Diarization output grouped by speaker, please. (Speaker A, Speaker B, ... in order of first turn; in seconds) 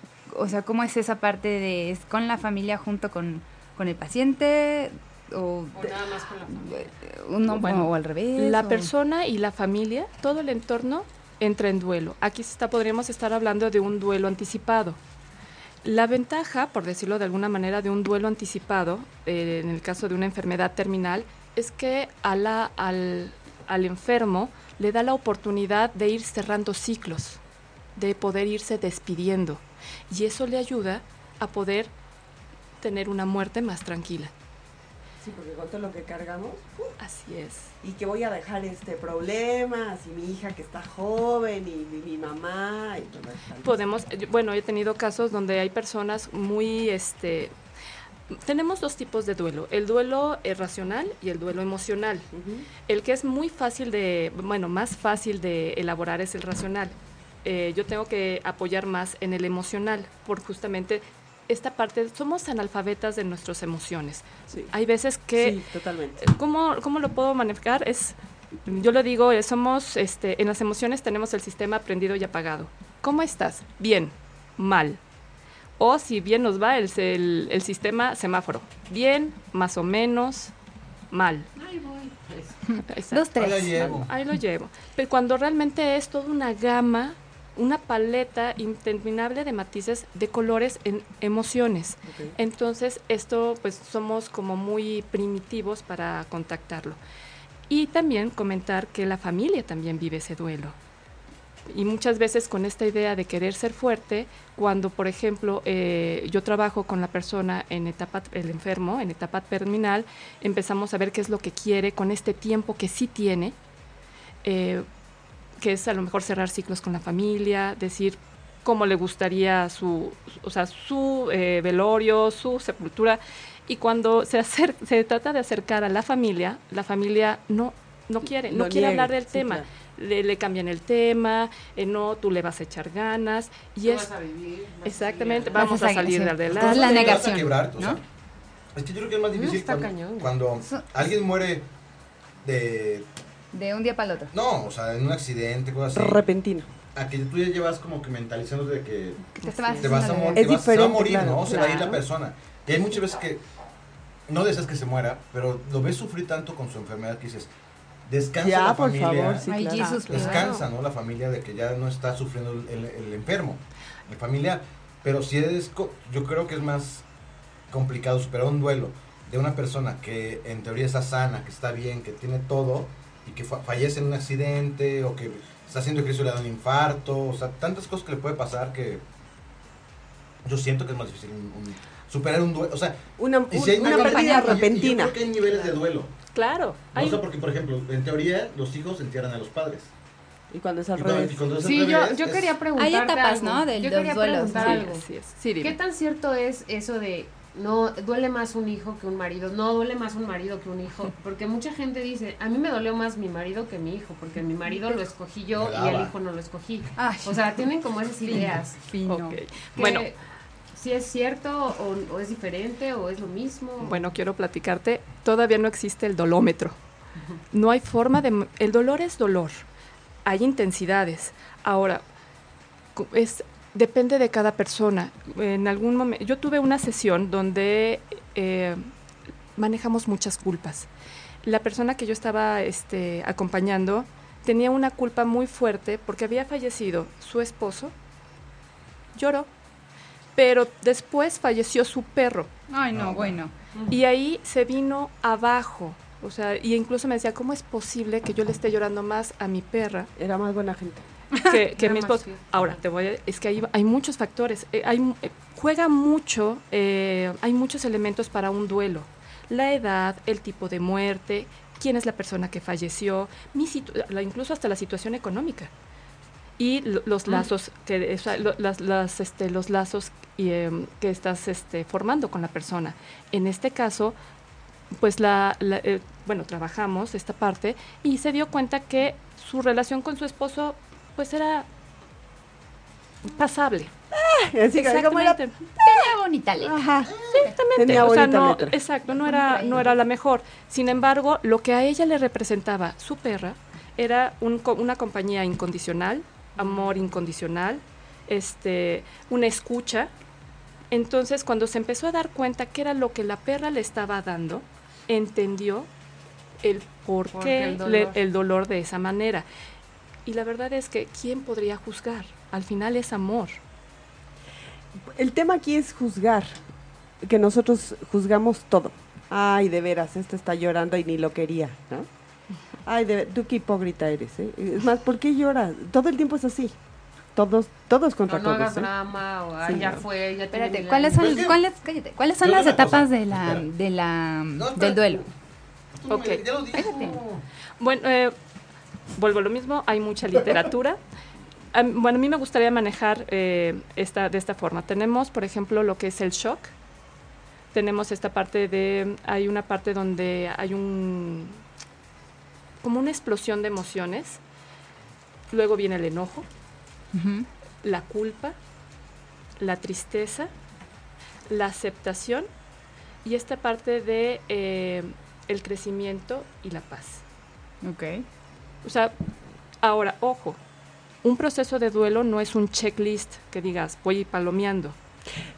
Speaker A: 0.3-5.9, 6.6-8.9, 82.7-84.0, 135.5-138.0, 143.5-144.3, 149.3-150.5, 151.4-152.0, 159.4-160.5, 183.8-184.7, 192.8-194.9, 207.0-207.5, 208.2-209.4, 242.7-243.5, 251.3-251.6, 285.8-286.8, 289.1-289.9, 330.5-335.2, 336.7-337.2, 357.1-357.5, 367.8-368.2
Speaker B: 5.7-6.8, 81.5-82.6, 133.8-135.8, 139.3-140.3, 149.4-149.9, 191.6-195.1, 195.6-208.8, 209.8-210.1, 210.7-214.0, 251.8-252.7, 307.3-308.2, 328.2-331.4
Speaker C: 7.5-15.0, 15.8-27.4, 27.9-31.9, 32.8-34.3, 37.0-37.7, 43.6-47.5, 48.3-52.3, 52.9-56.9, 57.4-65.6, 66.2-68.1, 68.7-75.0, 75.8-80.5, 81.1-81.5, 82.9-97.0, 97.7-100.8, 101.7-113.5, 114.4-114.8, 115.6-134.1, 134.8-137.4, 159.8-160.6, 186.3-187.2, 194.5-195.8, 209.1-210.1, 213.8-216.8, 217.5-219.6, 220.2-222.0, 222.9-228.9, 229.6-230.9, 231.4-237.9, 239.1-239.5, 240.3-242.5, 243.9-250.1, 251.4-265.7, 266.6-274.1, 275.0-281.6, 283.2-283.9, 284.7-285.6, 287.2-300.1, 300.9-305.9, 306.6-309.4, 310.2-313.6, 336.1-337.0, 337.8-338.3, 339.1-341.0, 341.7-346.7, 347.7-351.6, 352.8-354.4, 355.5-356.4, 357.8-358.6, 359.6-360.5, 361.5-362.5, 363.2-367.2, 368.8-369.1, 369.8-370.6, 371.2-374.9
Speaker D: 35.2-36.9, 37.8-43.8, 52.3-52.7, 65.3-66.2, 92.0-92.3, 128.3-129.7, 145.9-146.7, 150.3-151.8, 158.4-159.8, 183.2-185.2, 190.5-191.5, 250.2-251.0, 284.1-285.4, 286.6-287.1, 287.7-288.8, 315.1-316.6, 317.2-322.1, 322.8-326.8, 327.3-328.9
Speaker E: 83.3-84.1, 136.5-138.0, 138.7-141.7, 142.4-143.1, 144.3-146.2, 146.9-153.4, 154.3-157.5, 158.1-159.5, 160.1-167.1, 167.7-179.0, 180.4-186.1, 186.9-189.9, 190.9-192.6, 205.5-206.1, 242.9-243.4, 331.1-331.6, 332.4-333.7, 334.6-335.2, 335.9-337.4